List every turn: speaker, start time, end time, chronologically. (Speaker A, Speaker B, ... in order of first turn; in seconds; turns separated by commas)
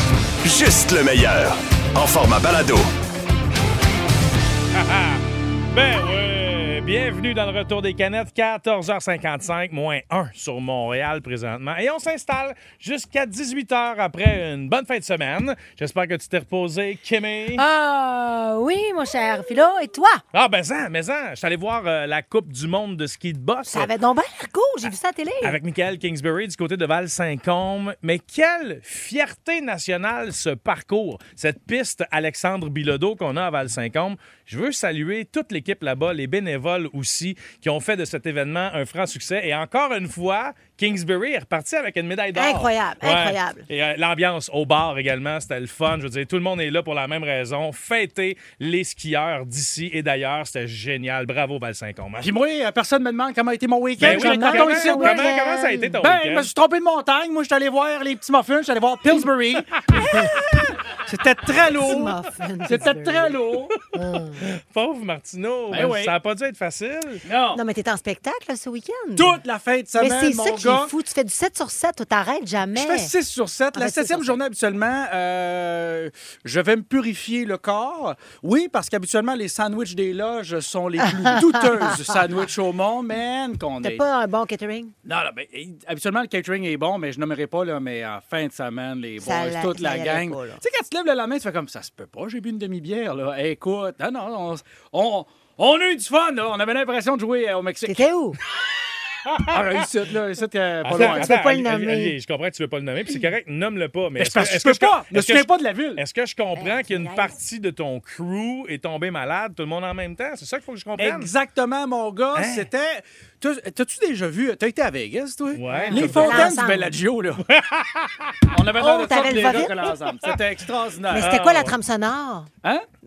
Speaker A: 0.4-2.9, Speaker B: 4.7-17.6, Speaker C: 17.6-20.2, Speaker B: 20.3-23.9, Speaker C: 23.7-25.6, Speaker B: 25.4-52.3, Speaker C: 42.3-43.7, Speaker D: 52.2-55.3, Speaker C: 54.0-55.9, Speaker B: 54.0-56.5, Speaker D: 55.9-59.8, Speaker D: 61.0-63.7, Speaker C: 61.6-63.4, Speaker C: 63.9-64.4, Speaker B: 64.4-67.2, Speaker D: 65.7-66.1, Speaker D: 67.2-67.6, Speaker C: 67.5-69.4, Speaker D: 69.2-70.9, Speaker C: 70.0-73.1, Speaker D: 72.7-84.0, Speaker C: 73.7-74.3, Speaker C: 81.0-82.1, Speaker C: 83.8-84.9, Speaker D: 85.0-98.0, Speaker C: 89.2-90.6, Speaker C: 97.8-98.4, Speaker D: 99.5-101.4, Speaker B: 100.8-111.3, Speaker C: 100.9-102.1, Speaker D: 104.2-106.0, Speaker C: 106.6-107.3, Speaker D: 111.0-117.4, Speaker B: 112.3-112.7, Speaker B: 115.5-116.5, Speaker C: 115.7-116.9, Speaker B: 117.4-118.5, Speaker D: 118.5-121.4, Speaker C: 118.8-119.8, Speaker C: 121.1-122.5, Speaker B: 121.2-121.7